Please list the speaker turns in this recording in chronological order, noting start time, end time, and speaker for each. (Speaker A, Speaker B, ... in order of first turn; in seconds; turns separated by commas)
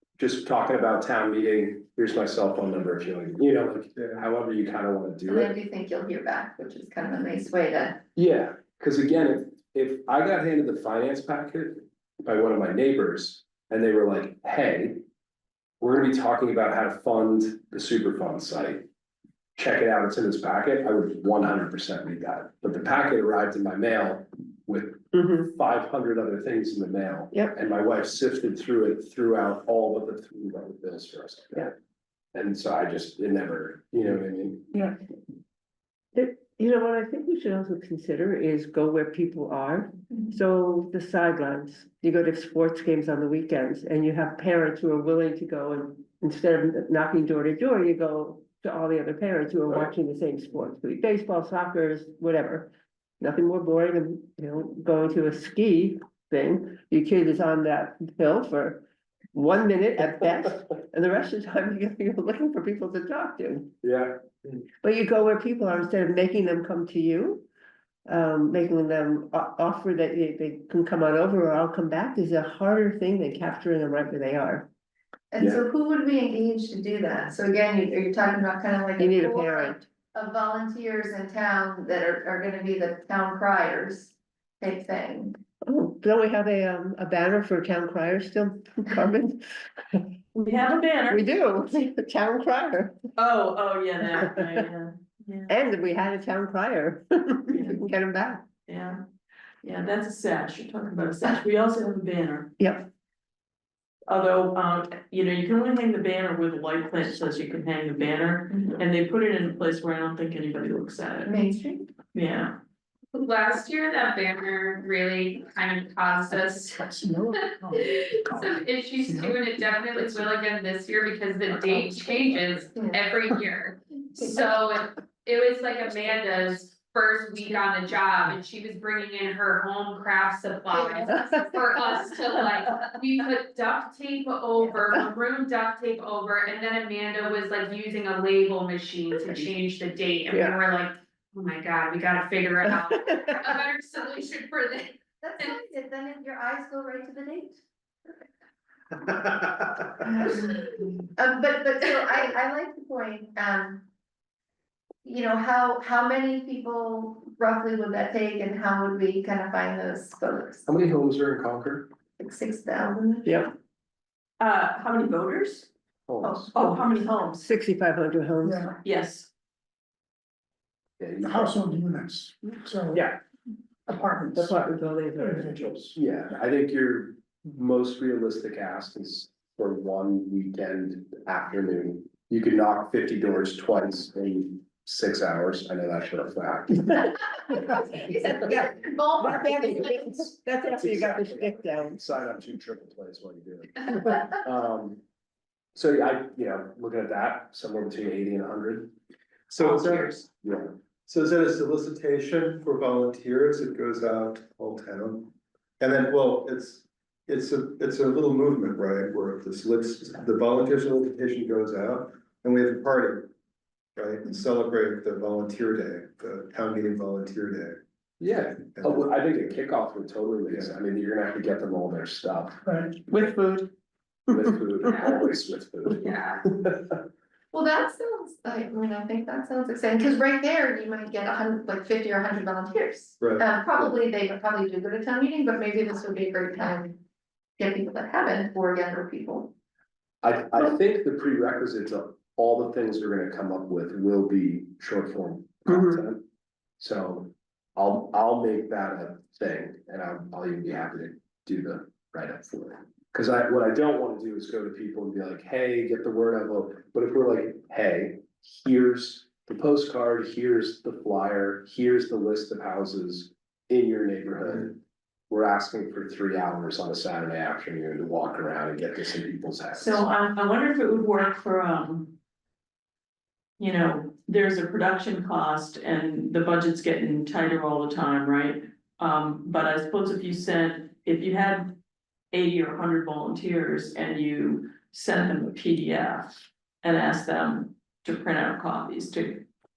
Speaker A: 0.2-5.5, Speaker B: 4.0-4.3, Speaker C: 5.3-8.0, Speaker A: 8.2-15.0, Speaker A: 15.8-18.8, Speaker A: 19.6-31.7, Speaker D: 25.1-25.5, Speaker A: 32.3-34.7, Speaker D: 36.1-58.8, Speaker D: 59.3-63.7, Speaker A: 63.8-64.2, Speaker D: 64.8-67.5, Speaker D: 68.1-74.7, Speaker C: 75.3-85.4, Speaker D: 79.0-79.8, Speaker D: 85.7-93.0, Speaker E: 90.5-91.2, Speaker E: 93.2-95.5, Speaker D: 94.1-94.7, Speaker D: 95.5-98.5, Speaker E: 97.5-97.9, Speaker E: 98.7-99.0, Speaker E: 99.6-102.5, Speaker D: 102.6-102.9, Speaker E: 104.1-111.3, Speaker C: 111.2-111.9, Speaker E: 112.2-112.5, Speaker F: 113.2-145.5, Speaker G: 116.9-118.4, Speaker C: 130.8-131.3, Speaker C: 145.2-147.6, Speaker C: 150.0-153.8, Speaker C: 155.0-160.7, Speaker A: 160.7-161.9, Speaker C: 162.2-163.3, Speaker D: 163.3-163.5, Speaker E: 164.4-165.7, Speaker A: 166.1-166.5, Speaker E: 166.5-167.4, Speaker D: 167.4-168.7, Speaker E: 168.8-169.3, Speaker A: 171.0-171.6, Speaker G: 171.3-173.0, Speaker A: 172.9-173.2, Speaker G: 173.9-174.6, Speaker D: 174.3-175.6, Speaker G: 175.3-175.9, Speaker A: 175.9-187.0, Speaker C: 187.2-190.2, Speaker D: 188.4-192.1, Speaker A: 190.7-195.0, Speaker A: 195.8-198.9, Speaker B: 199.5-200.2, Speaker E: 199.6-200.1, Speaker A: 200.4-200.7, Speaker B: 201.1-213.3, Speaker B: 214.0-217.8, Speaker A: 218.2-222.6, Speaker B: 218.6-219.6, Speaker D: 223.1-223.7, Speaker A: 224.3-226.7, Speaker D: 224.3-225.1, Speaker C: 227.5-237.0, Speaker B: 233.2-233.5, Speaker C: 237.6-239.5, Speaker A: 240.2-246.2, Speaker A: 246.8-270.0, Speaker E: 269.7-272.1, Speaker E: 273.6-281.8, Speaker E: 282.3-286.3, Speaker E: 286.8-289.4